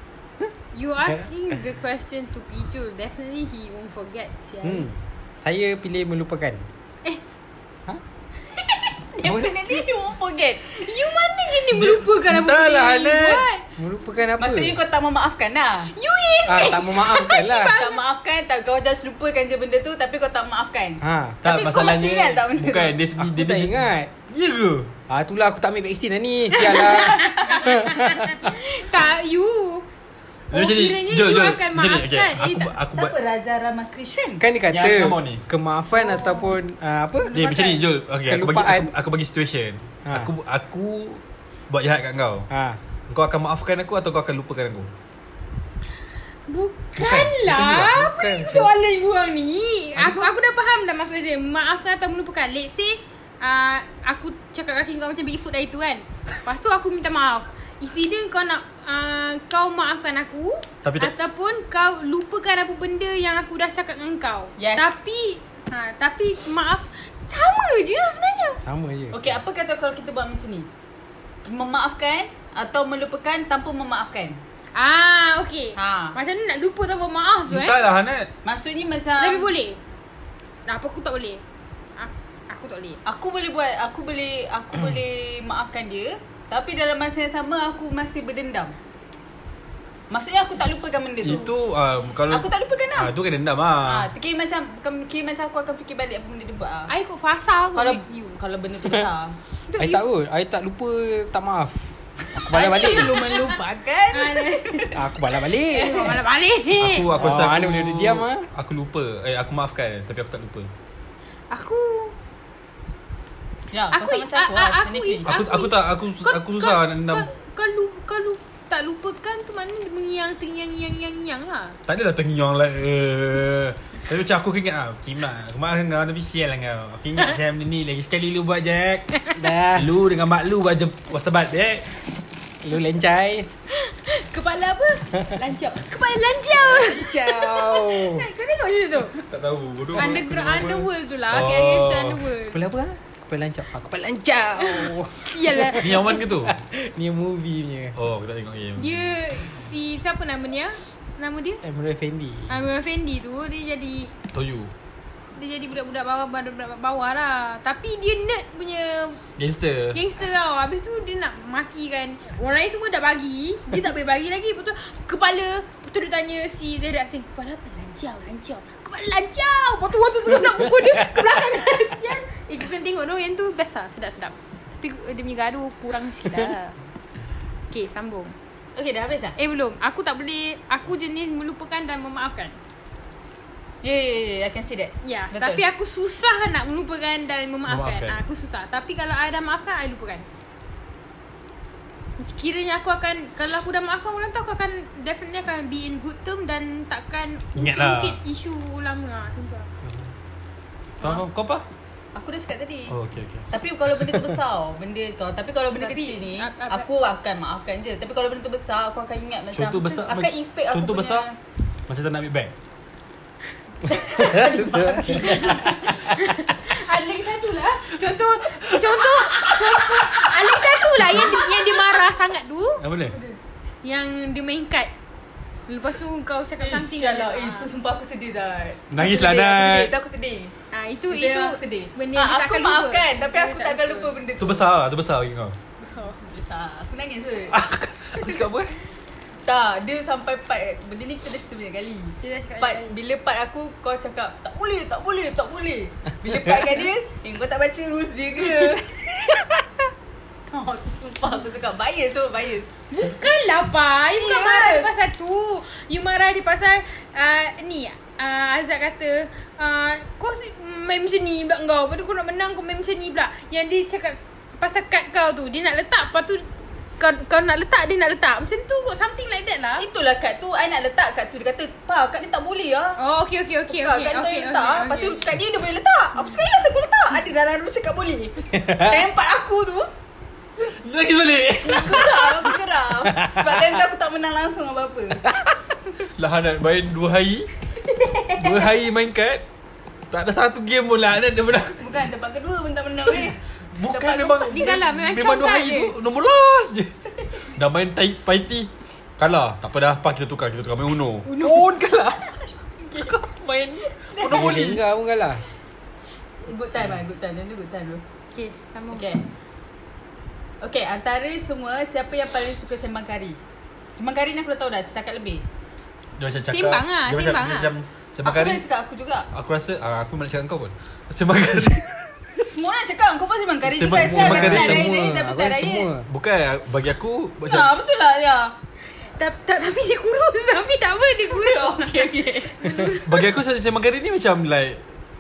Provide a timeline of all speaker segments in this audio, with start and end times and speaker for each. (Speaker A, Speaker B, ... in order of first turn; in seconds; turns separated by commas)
Speaker A: 0.7-4.9, Speaker B: 4.6-6.7, Speaker C: 8.6-10.7, Speaker B: 9.2-9.8, Speaker A: 10.7-13.6, Speaker D: 11.7-13.5, Speaker B: 13.8-14.8, Speaker C: 14.4-15.9, Speaker A: 15.9-18.0, Speaker B: 16.5-17.8, Speaker C: 17.6-23.0, Speaker B: 21.0-21.4, Speaker D: 21.4-23.8, Speaker B: 23.2-24.1, Speaker D: 24.3-24.9, Speaker B: 25.1-28.5, Speaker A: 26.6-29.9, Speaker D: 30.5-33.1, Speaker A: 30.5-32.8, Speaker C: 32.9-34.4, Speaker B: 34.4-37.4, Speaker D: 34.7-35.4, Speaker A: 36.0-36.5, Speaker A: 37.3-37.8, Speaker D: 37.3-42.5, Speaker B: 38.2-38.9, Speaker B: 42.5-42.8, Speaker D: 43.1-44.9, Speaker A: 46.5-68.6, Speaker B: 47.0-48.7, Speaker D: 47.5-47.8, Speaker D: 60.8-61.1, Speaker C: 64.6-64.9, Speaker B: 68.6-69.2, Speaker C: 69.1-70.7, Speaker C: 71.5-74.4, Speaker A: 74.8-77.8, Speaker C: 75.8-76.2, Speaker D: 77.5-78.3, Speaker C: 78.4-79.5, Speaker A: 79.2-79.8, Speaker A: 80.7-81.4, Speaker A: 82.0-83.0, Speaker C: 83.0-88.8, Speaker C: 90.1-91.5, Speaker D: 91.2-94.1, Speaker C: 92.3-93.1, Speaker C: 93.8-96.9, Speaker A: 96.9-98.4, Speaker C: 97.8-99.4, Speaker A: 99.7-100.0, Speaker B: 99.8-103.2, Speaker C: 102.5-105.0, Speaker A: 102.6-103.6, Speaker A: 104.1-104.9, Speaker B: 104.9-106.2, Speaker A: 105.7-107.1, Speaker D: 106.8-110.7, Speaker B: 107.2-108.5, Speaker A: 111.5-112.1, Speaker C: 113.7-115.3, Speaker A: 113.9-121.8, Speaker D: 115.3-117.3, Speaker D: 121.9-129.1, Speaker B: 129.3-129.9, Speaker D: 129.7-132.0, Speaker B: 132.6-133.5, Speaker A: 133.7-139.2, Speaker B: 136.6-138.3, Speaker D: 139.2-142.2, Speaker A: 139.9-142.6, Speaker B: 142.5-148.0, Speaker A: 144.7-146.2, Speaker D: 145.8-146.6, Speaker D: 147.9-149.1, Speaker A: 148.8-151.6, Speaker B: 151.6-152.6, Speaker A: 152.5-154.1, Speaker D: 154.3-154.7, Speaker A: 155.3-159.2, Speaker D: 159.4-160.0, Speaker A: 159.9-176.8, Speaker A: 177.7-178.3, Speaker C: 178.8-179.4, Speaker A: 179.4-182.6, Speaker C: 183.8-185.6, Speaker A: 185.0-190.3, Speaker D: 187.7-188.2, Speaker A: 192.2-199.7, Speaker D: 197.6-198.2, Speaker D: 201.0-201.7, Speaker C: 202.2-203.0, Speaker D: 202.9-204.3, Speaker C: 203.5-211.3, Speaker A: 205.8-206.9, Speaker D: 209.5-211.3, Speaker D: 211.9-212.5, Speaker C: 213.9-215.9, Speaker B: 214.2-215.5, Speaker A: 215.2-222.8, Speaker D: 222.8-223.2, Speaker A: 223.8-224.9, Speaker A: 225.7-227.7, Speaker C: 226.6-230.5, Speaker D: 228.9-229.9, Speaker A: 230.7-234.1, Speaker C: 231.1-234.7, Speaker D: 234.4-235.6, Speaker A: 235.8-236.2, Speaker C: 236.2-237.6, Speaker D: 237.5-238.8, Speaker C: 238.2-238.4, Speaker C: 239.5-249.6, Speaker A: 242.2-242.9, Speaker C: 250.5-252.7, Speaker A: 252.9-269.9, Speaker C: 254.2-254.9, Speaker C: 269.8-273.0, Speaker A: 273.0-275.3, Speaker C: 273.7-279.9, Speaker B: 278.6-278.9, Speaker D: 280.6-282.5, Speaker C: 281.6-285.3, Speaker D: 286.2-287.5, Speaker C: 287.8-288.7, Speaker D: 288.4-289.4, Speaker D: 290.1-291.8, Speaker C: 291.8-294.8, Speaker D: 293.1-302.2, Speaker A: 294.5-295.9, Speaker C: 301.3-301.8, Speaker C: 302.8-303.1, Speaker D: 303.0-304.8, Speaker C: 303.9-304.6, Speaker B: 304.3-305.4, Speaker C: 306.4-308.0, Speaker A: 308.3-309.1, Speaker C: 308.9-309.2, Speaker C: 310.6-313.4, Speaker C: 314.0-315.4, Speaker D: 316.2-318.6, Speaker A: 316.5-317.7, Speaker C: 318.2-319.3, Speaker D: 319.3-322.5, Speaker C: 322.5-325.9, Speaker D: 323.6-325.0, Speaker B: 323.9-326.1, Speaker D: 326.1-327.7, Speaker C: 327.5-328.5, Speaker A: 328.9-333.2, Speaker C: 331.3-333.0, Speaker D: 333.0-334.8